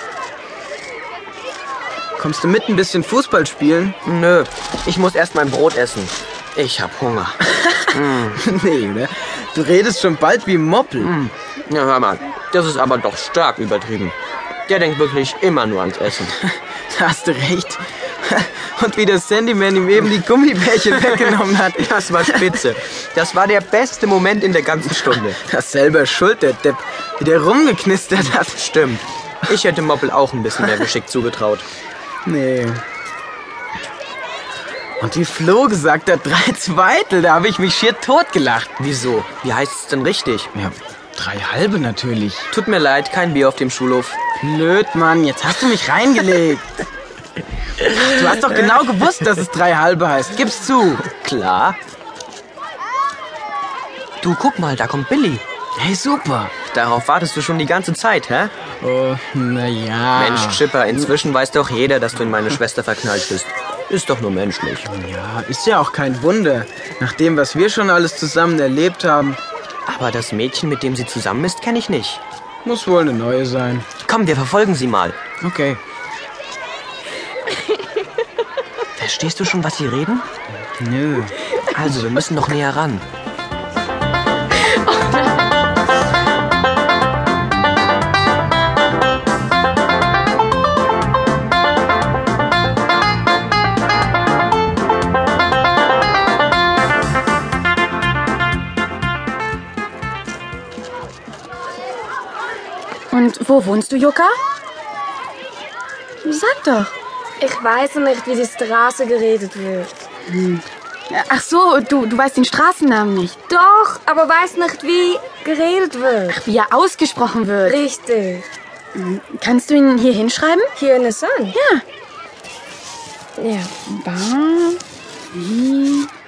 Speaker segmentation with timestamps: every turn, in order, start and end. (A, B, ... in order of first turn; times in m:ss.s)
0:02.2-0:04.0 A
0:04.0-0:08.4 B
0:07.6-0:11.1 A
0:11.0-0:14.2 B
0:14.7-0:16.4 B
0:16.4-0:22.7 A
0:20.8-0:25.4 B
0:25.0-0:28.6 A
0:28.2-0:31.6 B
0:30.6-0:30.8 A
0:32.2-0:32.8 A
0:35.0-0:38.7 A
0:38.8-0:40.5 B
0:40.5-0:42.5 A
0:42.5-0:44.2 B
0:44.4-0:46.8 A
0:47.8-0:51.0 A
0:51.1-0:51.8 B
0:54.2-0:55.4 B
0:55.8-0:56.5 A
0:56.7-0:58.5 B
0:58.8-1:00.7 A
1:00.1-1:04.9 B
1:04.8-1:09.4 A
1:09.9-1:12.2 B
1:12.6-1:13.9 A
1:14.0-1:15.2 B
1:15.4-1:15.8 A
1:19.0-1:20.3 B
1:20.8-1:21.4 A
1:21.7-1:23.0 B
1:43.1-1:44.3 C
1:46.2-1:46.9 C
1:47.4-1:49.9 D
1:50.3-1:53.4 C
1:53.5-1:56.4 D
1:56.3-1:57.8 C
1:57.6-1:58.4 D
1:58.9-2:00.7 C
2:00.8-2:01.6 D
2:01.5-2:01.8 C
2:03.4-2:03.7 D
2:03.9-2:04.8 C
2:05.3-2:06.1 C